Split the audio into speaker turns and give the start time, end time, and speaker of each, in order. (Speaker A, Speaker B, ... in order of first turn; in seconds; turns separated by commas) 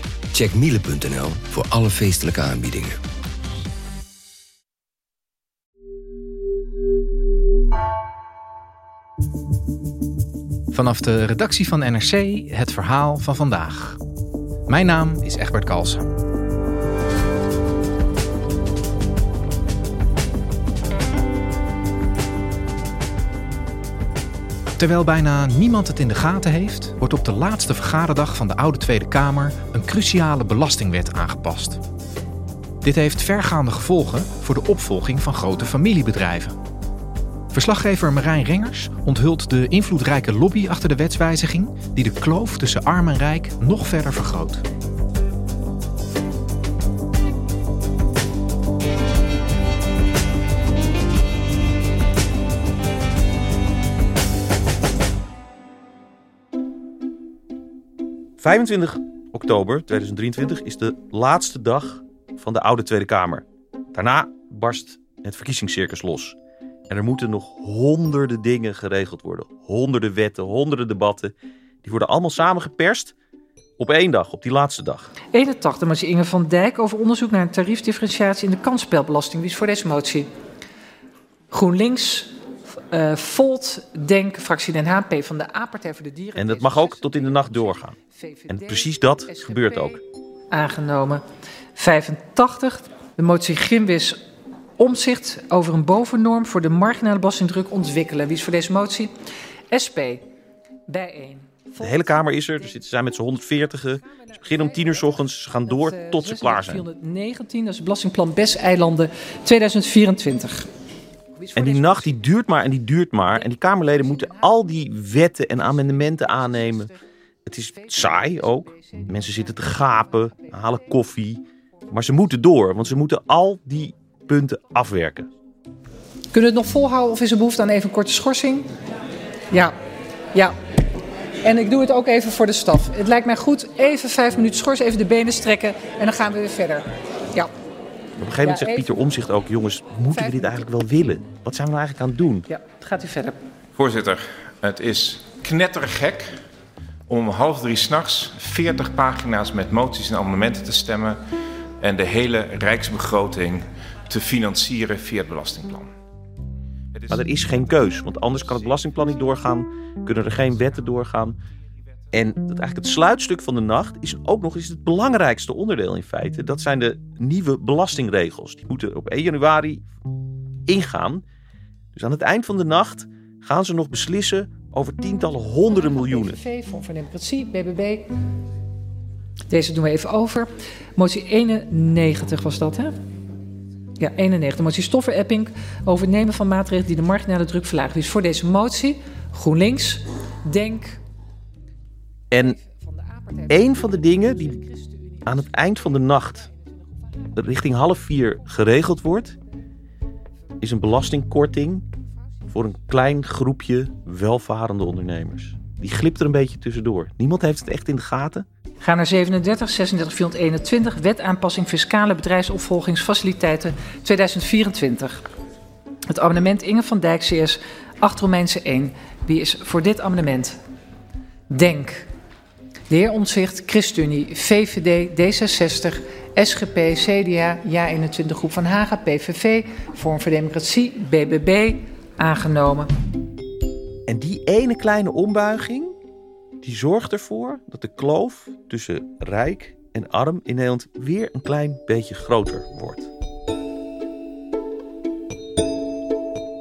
Speaker A: 0.3-3.0, Speaker B: 10.7-14.0, Speaker B: 14.7-16.1, Speaker B: 24.8-31.8, Speaker B: 32.8-36.5, Speaker B: 37.5-44.6, Speaker C: 58.4-66.4, Speaker C: 66.9-73.2, Speaker C: 73.8-75.1, Speaker D: 75.3-80.3, Speaker D: 81.5-82.3, Speaker D: 82.9-90.0, Speaker C: 86.3-88.0, Speaker C: 88.5-90.0, Speaker D: 90.5-91.2, Speaker D: 91.8-94.2, Speaker D: 94.8-99.1, Speaker D: 99.7-100.2, Speaker D: 100.9-102.5, Speaker C: 101.8-106.8, Speaker D: 104.1-105.0, Speaker D: 105.7-110.7, Speaker D: 111.3-112.2, Speaker C: 111.5-116.9, Speaker D: 113.4-114.6, Speaker D: 115.7-116.9, Speaker C: 117.5-125.3, Speaker D: 117.8-119.2, Speaker D: 126.3-128.7, Speaker D: 131.4-137.5, Speaker C: 138.2-142.5, Speaker D: 138.4-138.9, Speaker D: 140.1-140.5, Speaker D: 142.5-143.4, Speaker E: 143.8-146.3, Speaker E: 147.1-151.2, Speaker E: 151.8-155.9, Speaker C: 157.1-161.4, Speaker C: 162.1-169.8, Speaker C: 170.7-171.2, Speaker C: 171.9-176.4, Speaker D: 175.7-178.1, Speaker D: 179.5-182.9, Speaker D: 184.0-191.0, Speaker C: 192.3-192.6, Speaker D: 193.2-195.1, Speaker C: 193.5-194.6, Speaker C: 195.2-196.5, Speaker C: 197.3-199.3, Speaker C: 200.6-201.8, Speaker C: 202.5-208.5, Speaker D: 208.8-215.2, Speaker D: 216.1-220.6, Speaker D: 221.5-222.1, Speaker D: 222.9-232.9, Speaker C: 234.1-236.0, Speaker C: 236.6-243.1